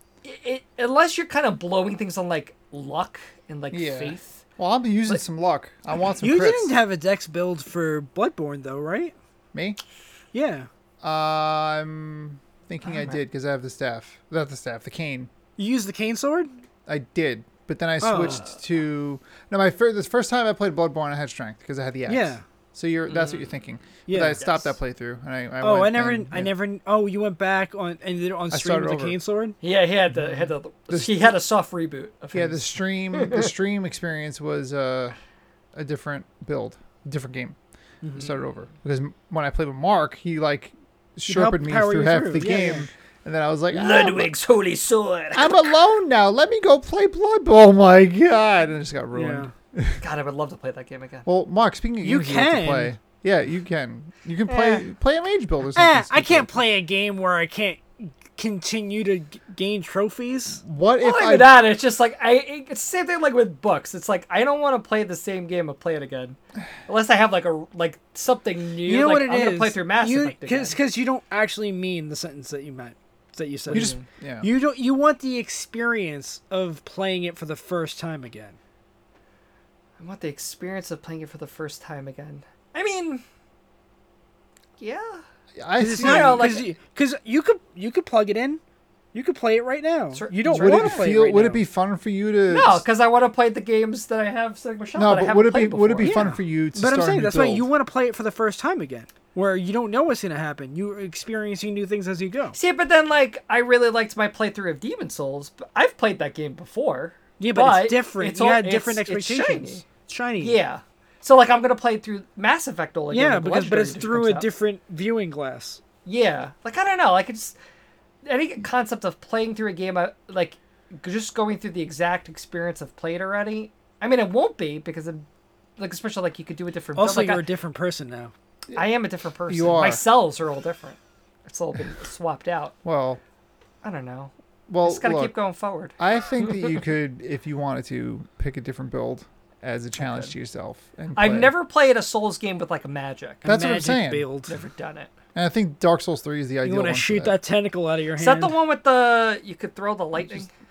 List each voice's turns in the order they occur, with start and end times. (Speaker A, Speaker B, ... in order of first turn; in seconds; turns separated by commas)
Speaker A: 0.2-4.4, Speaker B: 3.7-6.8, Speaker C: 6.2-9.1, Speaker B: 9.5-9.8, Speaker C: 10.3-10.7, Speaker B: 11.0-15.3, Speaker A: 12.8-13.2, Speaker C: 15.6-16.5, Speaker B: 16.9-26.5, Speaker C: 18.0-18.4, Speaker C: 22.1-22.4, Speaker A: 23.1-23.5, Speaker C: 24.1-24.4, Speaker A: 24.3-24.7, Speaker C: 25.6-29.6, Speaker B: 28.5-29.2, Speaker A: 29.6-33.5, Speaker B: 30.1-31.3, Speaker B: 32.3-35.2, Speaker B: 35.8-37.6, Speaker B: 38.1-44.3, Speaker C: 41.3-42.9, Speaker A: 43.7-45.8, Speaker B: 45.3-50.0, Speaker C: 49.1-49.5, Speaker A: 50.0-51.2, Speaker B: 51.2-56.5, Speaker C: 52.0-53.0, Speaker A: 54.5-54.8, Speaker C: 55.8-60.6, Speaker B: 60.6-61.5, Speaker A: 61.0-70.8, Speaker C: 68.8-78.6, Speaker A: 73.7-74.0, Speaker B: 73.7-74.5, Speaker A: 80.0-83.2, Speaker A: 84.8-85.2, Speaker B: 85.6-86.5, Speaker C: 85.8-88.6, Speaker A: 86.0-86.7, Speaker C: 89.1-91.6, Speaker A: 90.1-91.1, Speaker B: 90.5-92.8, Speaker A: 92.5-96.2, Speaker B: 95.0-97.7, Speaker C: 96.0-102.5, Speaker A: 102.5-109.8, Speaker C: 107.4-110.6, Speaker A: 110.4-114.5, Speaker C: 113.1-115.8, Speaker A: 116.0-117.5, Speaker A: 118.2-125.2, Speaker A: 125.8-127.5, Speaker C: 127.0-128.3, Speaker A: 128.8-132.8, Speaker B: 129.5-130.0, Speaker B: 132.8-133.2, Speaker A: 133.8-136.8, Speaker B: 134.7-135.3, Speaker B: 136.0-141.5, Speaker A: 140.0-140.3, Speaker A: 141.2-143.4, Speaker C: 143.4-144.6, Speaker B: 143.4-144.3, Speaker A: 144.5-145.1, Speaker B: 145.3-147.4, Speaker C: 146.6-148.6, Speaker A: 148.2-150.5